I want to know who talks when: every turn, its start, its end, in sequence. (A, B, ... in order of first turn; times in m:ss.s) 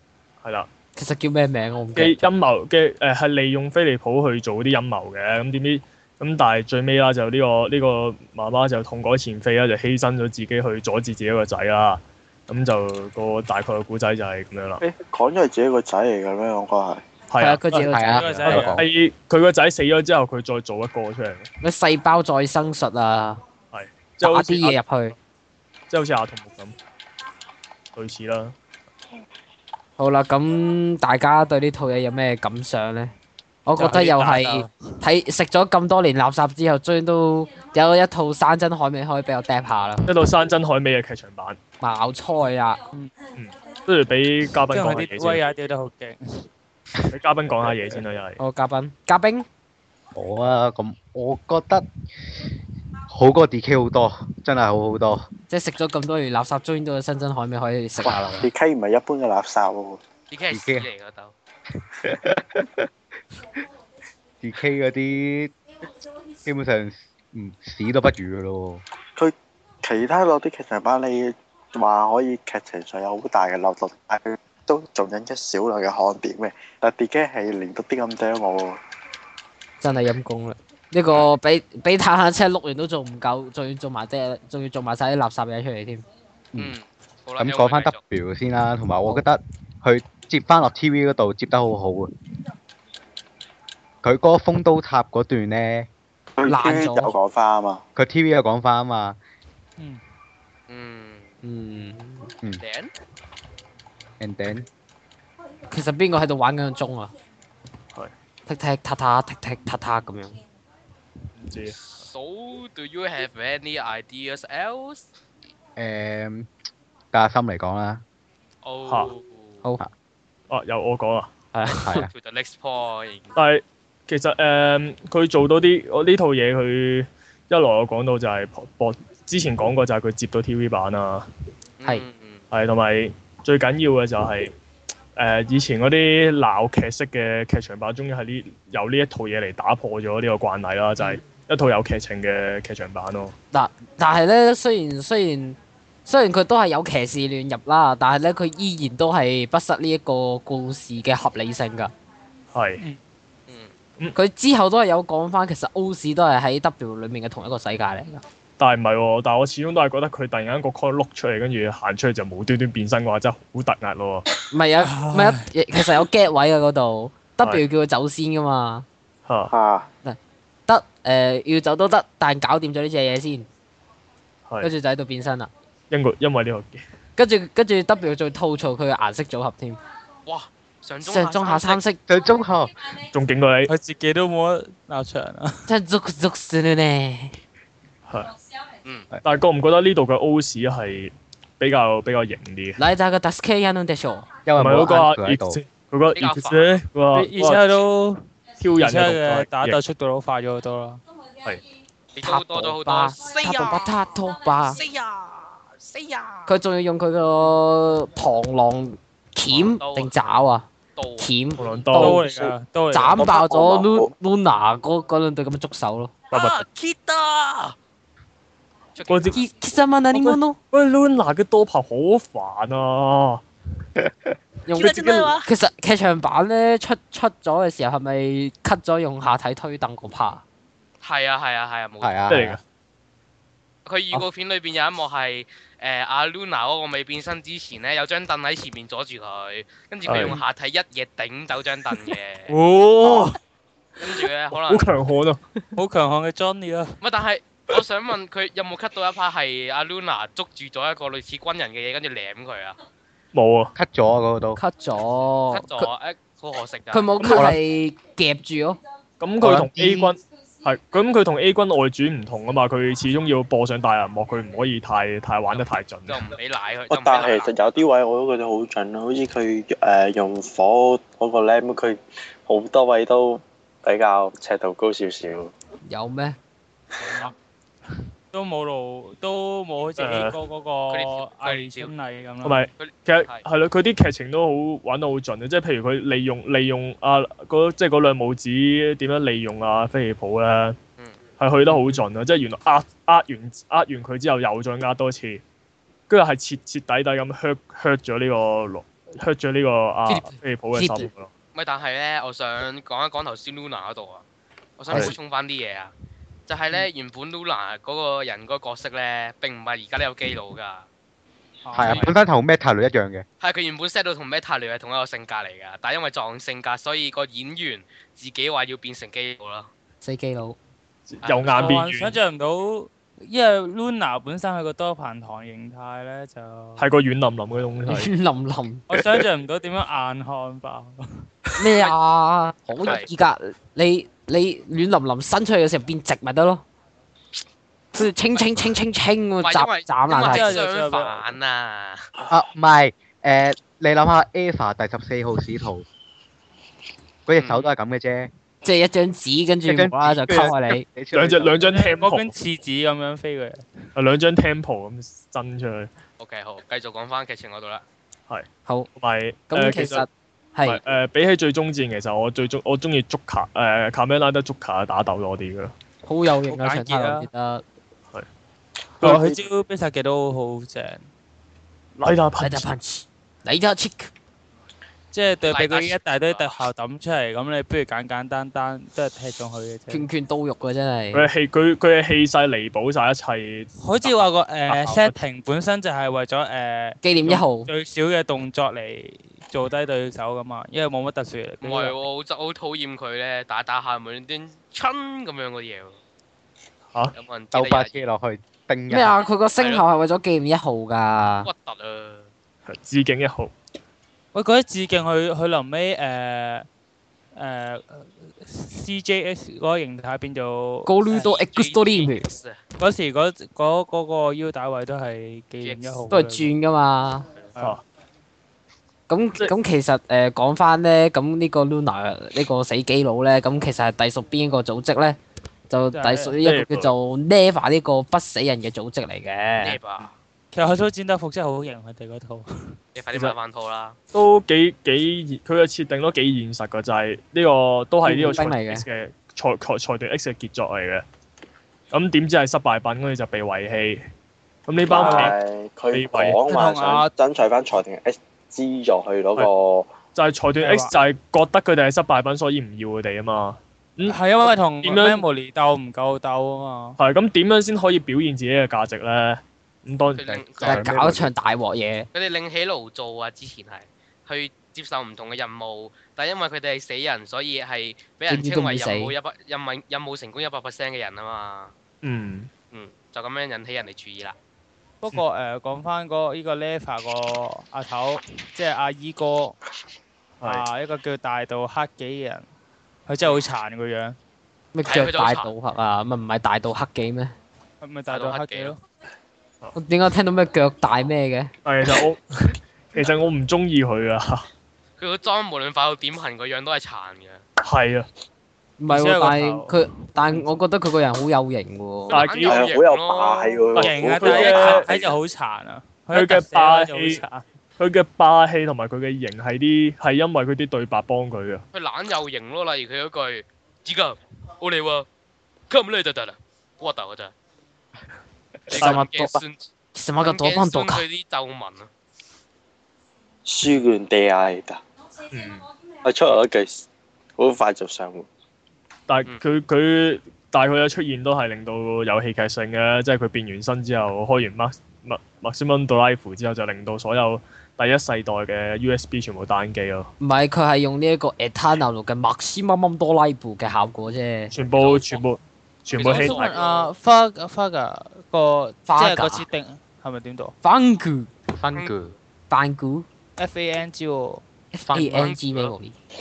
0:00.4-0:00.7 A
0:01.0-0:02.3 B
0:02.0-0:14.8 A
0:14.8-0:17.0 C
0:17.3-0:17.9 A
0:17.4-0:18.4 B
0:17.9-0:18.8 D
0:18.1-0:18.8 E
0:18.4-0:21.4 A
0:21.6-0:23.4 B
0:23.7-0:24.8 A
0:24.2-0:25.1 B
0:25.9-0:26.7 A
0:27.9-0:28.5 A
0:30.0-0:33.1 B
0:33.6-0:40.1 B
0:33.7-0:35.0 E
0:40.1-0:41.6 A
0:41.8-0:42.8 B
0:43.3-0:45.4 A
0:44.7-0:46.4 E
0:47.1-0:48.4 A
0:48.4-0:49.4 B
0:50.1-0:51.8 D
0:53.1-0:55.2 D
0:55.5-0:58.5 B
0:58.0-1:00.0 C
1:00.3-1:01.3 F
1:00.5-1:00.9 D
1:02.0-1:02.8 D
1:04.4-1:05.5 D
1:06.4-1:08.8 D
1:09.2-1:18.8 C
1:19.8-1:26.0 B
1:26.6-1:28.0 F
1:27.4-1:32.1 D
1:34.0-1:35.9 D
1:36.4-1:37.8 C
1:36.4-1:37.2 B
1:38.0-1:39.2 D
1:40.7-1:41.3 F
1:41.4-1:42.3 B
1:42.6-1:42.9 F
1:44.2-1:44.6 D
1:45.7-1:47.1 B
1:48.4-1:50.4 B
1:51.4-1:51.8 A
1:51.9-1:55.0 F
1:55.8-1:56.5 D
1:57.1-1:58.0 D
1:58.6-1:59.6 F
2:00.5-2:01.3 A
2:01.5-2:02.0 B
2:01.7-2:02.1 D
2:01.9-2:03.3 F
2:03.3-2:11.3 A
2:11.8-2:12.4 F
2:12.5-2:14.5 A
2:15.2-2:23.3 A
2:23.5-2:31.9 B
2:32.5-2:32.8 A
2:33.5-2:33.7 F
2:34.1-2:38.2 B
2:38.6-2:44.2 A
2:44.5-2:48.9 B
2:44.8-2:45.5 E
2:49.2-2:49.5 A
2:49.5-2:49.9 C
2:50.0-2:53.5 B
2:54.6-2:55.5 B
2:55.9-2:56.8 A
2:57.2-2:59.8 B
3:00.2-3:01.8 F
3:01.0-3:02.0 B
3:02.1-3:02.7 D
3:03.1-3:03.7 A
3:03.7-3:05.7 E
3:05.7-3:07.4 B
3:09.2-3:12.8 A
3:12.8-3:14.3 B
3:14.4-3:15.6 D
3:14.6-3:17.6 A
3:16.2-3:16.8 F
3:17.1-3:21.0 E
3:18.6-3:19.8 A
3:22.1-3:24.0 F
3:22.2-3:24.8 B
3:24.6-3:26.5 F
3:26.5-3:30.7 B
3:29.5-3:30.1 F
3:31.0-3:31.3 F
3:31.2-3:32.2 B
3:31.6-3:32.5 A
3:31.9-3:33.2 E
3:32.9-3:36.1 B
3:33.2-3:34.1 C
3:36.3-3:37.8 F
3:36.3-3:36.6 A
3:38.9-3:39.4 F
3:39.1-3:39.4 A
3:39.3-3:40.6 B
3:40.1-3:43.4 A
3:44.6-3:50.4 B
3:44.7-3:45.4 A
3:44.8-3:45.5 F
3:51.0-3:52.2 F
3:52.0-3:52.6 D
3:52.3-3:52.6 A
3:53.8-4:02.5 F
4:00.0-4:00.4 A
4:02.5-4:03.4 A
4:04.0-4:04.9 F
4:04.6-4:05.4 A
4:05.8-4:07.0 E
4:07.0-4:12.8 F
4:13.3-4:13.7 A
4:13.8-4:14.6 D
4:14.6-4:15.9 B
4:15.5-4:17.4 F
4:16.9-4:18.8 B
4:17.2-4:17.6 D
4:19.2-4:26.2 A
4:19.4-4:20.2 D
4:25.5-4:27.8 F
4:26.9-4:35.5 C
4:35.8-4:36.4 B
4:37.0-4:37.3 E
4:38.3-4:42.7 E
4:40.0-4:40.4 A
4:40.9-4:41.9 F
4:42.4-4:50.8 A
4:42.8-4:43.4 F
4:51.4-4:55.4 A
4:56.1-5:01.3 A
5:00.1-5:01.1 B
5:01.5-5:04.2 F
5:04.8-5:05.9 F
5:06.5-5:10.9 F
5:11.6-5:12.1 E
5:11.7-5:13.2 D
5:11.8-5:12.1 F
5:13.4-5:19.7 F
5:20.0-5:20.6 B
5:21.1-5:22.1 A
5:21.2-5:21.8 F
5:21.5-5:26.8 E
5:26.8-5:28.1 A
5:27.9-5:28.8 B
5:28.9-5:31.3 E
5:28.9-5:29.2 A
5:31.6-5:36.6 B
5:32.8-5:33.1 F
5:37.9-5:40.5 B
5:38.3-5:38.6 F
5:39.4-5:42.1 F
5:40.1-5:41.3 E
5:42.3-5:45.8 D
5:47.3-5:48.3 D
5:47.4-5:47.7 F
5:48.6-5:50.8 B
5:49.6-5:51.8 D
5:51.1-5:52.3 A
5:51.6-5:53.9 E
5:54.0-5:55.9 A
5:56.2-5:57.8 F
5:58.3-6:00.0 A
5:59.5-6:00.8 B
6:00.6-6:05.7 A
6:06.0-6:07.6 B
6:06.4-6:07.3 E
6:09.0-6:11.0 E
6:09.0-6:09.4 A
6:12.0-6:12.7 A
6:12.4-6:14.1 B
6:15.1-6:20.0 E
6:15.5-6:16.6 F
6:19.9-6:21.3 B
6:21.1-6:23.7 A
6:23.8-6:32.0 E
6:24.7-6:25.1 A
6:27.0-6:27.7 B
6:31.6-6:36.0 F
6:37.1-6:38.0 F
6:37.5-6:39.2 D
6:38.9-6:41.5 B
6:39.6-6:39.8 F
6:41.4-6:42.3 F
6:42.7-6:43.5 A
6:44.3-6:46.7 E
6:47.3-6:50.9 E
6:50.8-6:52.2 B
6:51.1-6:52.6 F
6:52.8-6:56.5 E
6:55.6-6:56.0 F
6:56.1-6:57.2 B
6:59.1-7:05.2 B
7:05.7-7:09.8 B
7:05.9-7:06.3 E
7:06.4-7:06.9 A
7:09.6-7:10.1 F
7:10.5-7:12.8 E
7:12.9-7:14.0 F
7:14.1-7:21.0 A
7:18.0-7:18.8 B
7:21.9-7:24.0 A
7:24.7-7:25.3 A
7:24.8-7:29.9 C
7:25.0-7:25.3 E
7:25.9-7:26.4 A
7:26.4-7:27.1 E
7:30.1-7:34.2 A
7:30.6-7:30.9 E
7:34.0-7:37.0 E
7:34.8-7:35.2 A
7:37.0-7:40.9 A
7:40.1-7:40.8 F
7:40.6-7:41.3 D
7:40.6-7:42.1 B
7:42.1-7:51.7 F
7:48.3-7:49.1 B
7:52.0-7:52.5 A
7:52.7-7:54.4 F
7:55.0-7:59.6 E
8:00.4-8:02.5 E
8:03.0-8:04.2 E
8:04.7-8:07.3 B
8:04.8-8:05.5 F
8:07.8-8:08.8 E
8:08.1-8:08.8 F
8:09.7-8:11.5 B
8:11.6-8:14.5 A
8:15.0-8:17.4 F
8:17.6-8:18.1 A
8:18.8-8:22.2 B
8:18.9-8:19.8 E
8:22.1-8:23.7 F
8:22.1-8:22.6 A
8:22.4-8:25.1 C
8:23.7-8:27.4 E
8:23.8-8:24.9 A
8:26.1-8:27.2 A
8:27.8-8:31.6 A
8:31.7-8:35.1 F
8:35.7-8:37.3 F
8:38.7-8:39.6 F
8:38.7-8:39.4 B
8:38.7-8:39.0 A
8:39.9-8:41.0 B
8:40.2-8:41.9 F
8:43.4-8:44.8 C
8:45.3-8:45.6 A
8:46.0-8:48.3 C
8:49.1-9:00.1 A
9:00.2-9:04.5 B
9:04.5-9:06.5 A
9:04.7-9:05.2 F
9:05.9-9:06.9 F
9:06.0-9:10.5 E
9:08.9-9:09.4 B
9:10.6-9:11.3 B
9:11.6-9:12.1 D
9:11.7-9:12.2 F
9:12.5-9:13.0 B
9:13.4-9:14.4 E
9:14.7-9:15.9 B
9:14.9-9:15.7 F